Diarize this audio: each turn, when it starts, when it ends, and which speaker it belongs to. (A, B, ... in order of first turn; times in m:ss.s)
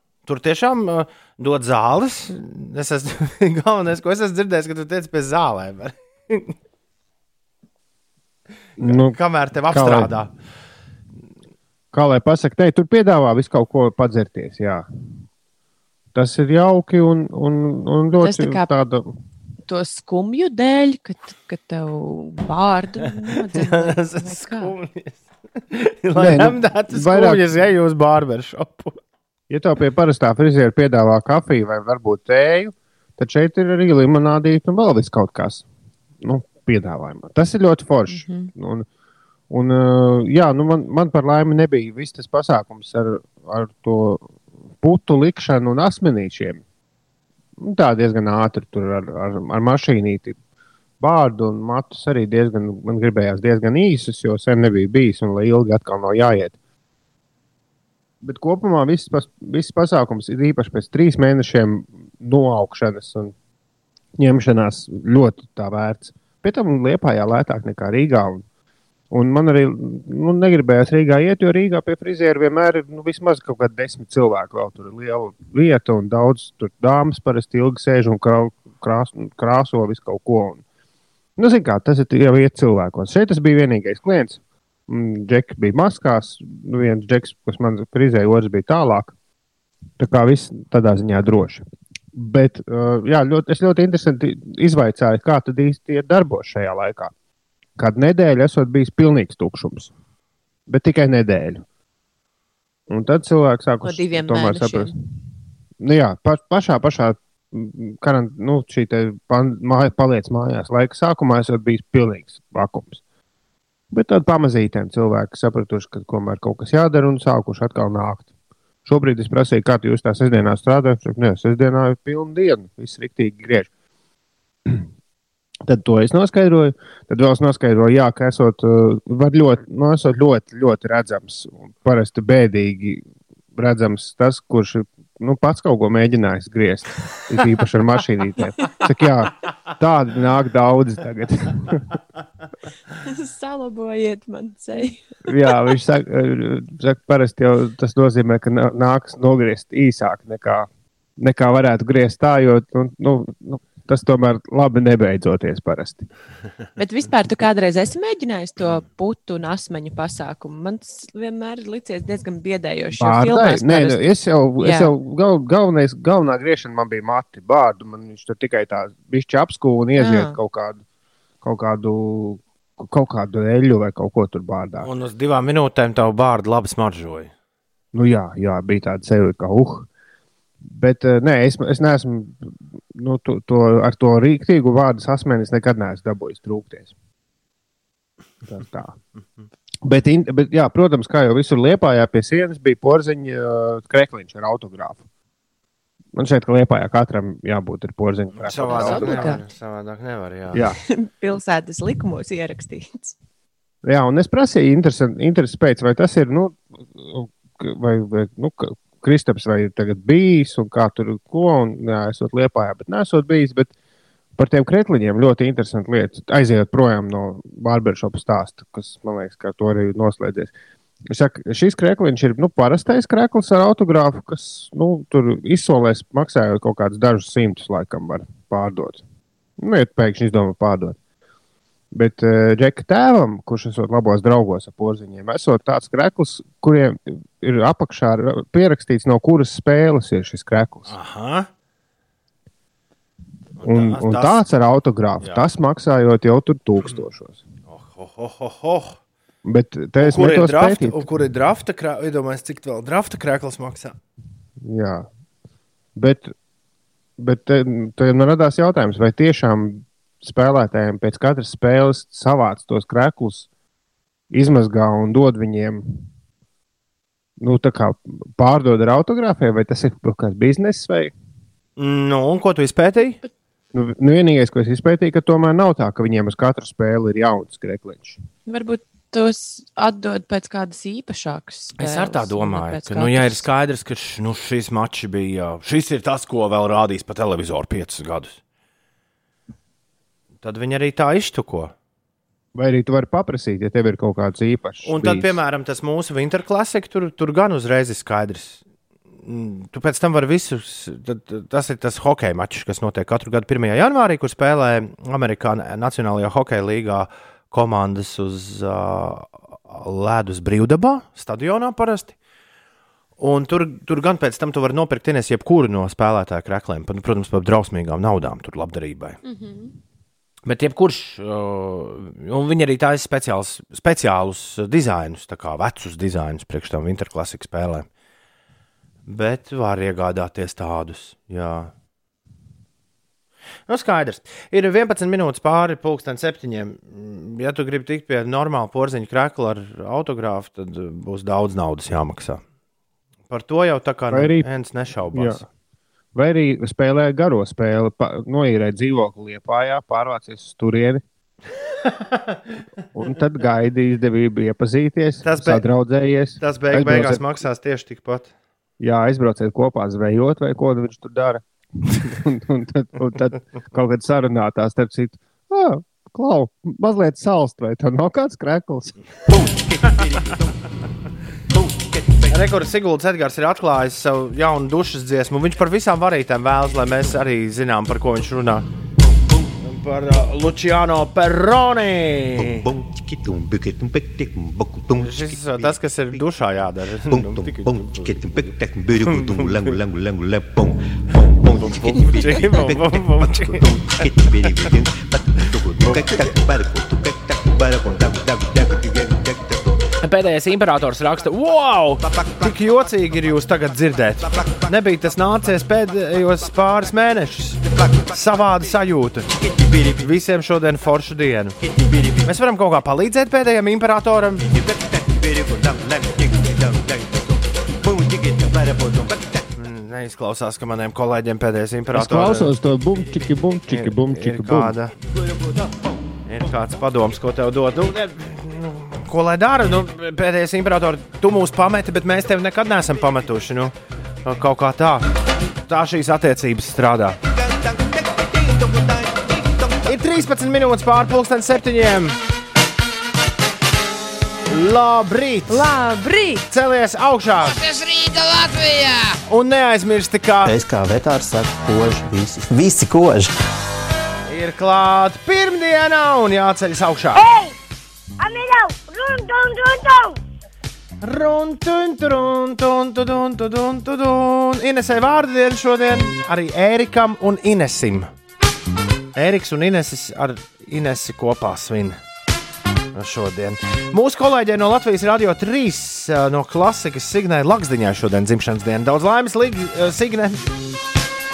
0:00.3-0:06.5 A
0:08.8-0:09.2 B
0:08.8-0:10.3 A
0:09.7-0:10.1 B
0:11.9-0:14.9 B
0:16.1-0:19.1 B
0:18.2-0:18.7 C
0:19.7-0:24.7 C
0:23.5-0:25.2 A
0:25.7-0:29.0 A
0:26.2-0:27.4 B
0:29.5-0:35.6 B
0:36.2-0:38.9 B
0:38.1-0:38.5 C
0:39.5-0:44.3 B
0:44.8-0:46.6 B
0:47.6-0:50.4 B
0:51.0-0:56.6 B
0:58.2-1:03.3 B
1:04.2-1:08.4 B
1:09.1-1:20.6 B
1:21.4-1:29.1 B
1:30.0-1:37.1 B
1:37.8-1:39.9 B
1:40.7-1:41.6 B
1:42.9-1:44.9 B
1:43.8-1:44.9 C
1:45.8-1:53.0 B
1:53.9-1:58.3 B
1:58.8-2:03.7 B
2:05.6-2:13.0 B
2:13.5-2:21.9 B
2:23.0-2:25.0 C
2:25.3-2:36.0 B
2:36.8-2:44.0 C
2:43.0-2:50.8 B
2:44.6-2:44.9 C
2:50.0-2:50.4 C
2:51.4-2:54.9 B
2:54.8-2:57.3 A
2:57.9-2:59.9 B
3:00.6-3:06.9 B
3:08.5-3:09.0 B
3:09.8-3:15.0 B
3:16.1-3:19.4 B
3:18.4-3:20.7 A
3:18.7-3:19.4 C
3:20.5-3:20.8 B
3:20.9-3:23.1 C
3:23.8-3:33.7 B
3:34.4-3:40.5 B
3:41.1-3:49.0 B
3:49.6-3:51.0 B
3:51.9-4:00.9 B
4:00.9-4:01.5 A
4:03.6-4:04.4 A
4:03.6-4:07.4 B
4:07.7-4:09.0 A
4:09.4-4:11.0 B
4:10.0-4:14.0 A
4:14.6-4:15.1 B
4:16.0-4:16.3 B
4:17.2-4:23.5 B
4:24.3-4:26.1 B
4:27.4-4:31.1 B
4:31.8-4:33.2 A
4:33.7-4:38.2 B
4:38.4-4:43.4 C
4:41.8-4:48.4 A
4:50.4-4:51.7 A
4:52.5-4:55.3 B
4:54.8-4:58.6 A
4:59.2-5:12.1 A
5:13.2-5:19.2 A
5:19.2-5:19.7 C
5:20.4-5:27.9 A
5:29.0-5:31.7 A
5:33.7-5:42.4 A
5:43.3-5:45.4 A
5:44.1-5:44.4 B
5:45.1-5:45.4 B
5:46.1-5:51.0 B
5:52.9-5:57.2 B
5:55.2-5:55.6 A
5:56.4-5:58.3 A
5:58.8-6:01.4 B
6:02.0-6:09.0 B
6:09.4-6:10.5 D
6:11.6-6:12.3 D
6:12.3-6:18.7 A
6:19.6-6:22.7 A
6:22.4-6:26.2 D
6:25.0-6:28.1 A
6:27.1-6:39.8 D
6:29.0-6:29.8 A
6:31.7-6:34.0 A
6:40.0-6:49.3 A
6:42.0-6:43.1 D
6:44.2-6:44.7 D
6:47.6-6:48.1 D
6:49.4-6:50.0 D
6:50.0-6:51.6 A
6:51.6-6:52.3 D
6:52.2-6:54.4 A
6:54.4-6:59.4 D
6:59.6-7:02.5 A
7:01.9-7:04.7 B
7:03.7-7:05.0 A
7:05.1-7:05.7 D
7:06.3-7:15.0 A
7:15.7-7:17.2 A
7:17.4-7:19.8 D
7:19.9-7:22.2 A
7:24.5-7:25.7 A
7:25.5-7:26.4 C
7:26.5-7:27.7 A
7:29.3-7:30.5 A
7:30.4-7:33.3 D
7:34.3-7:37.2 A
7:37.2-7:37.5 E
7:38.2-7:40.2 E
7:41.0-7:48.1 A
7:49.1-7:52.0 A
7:52.9-8:00.5 A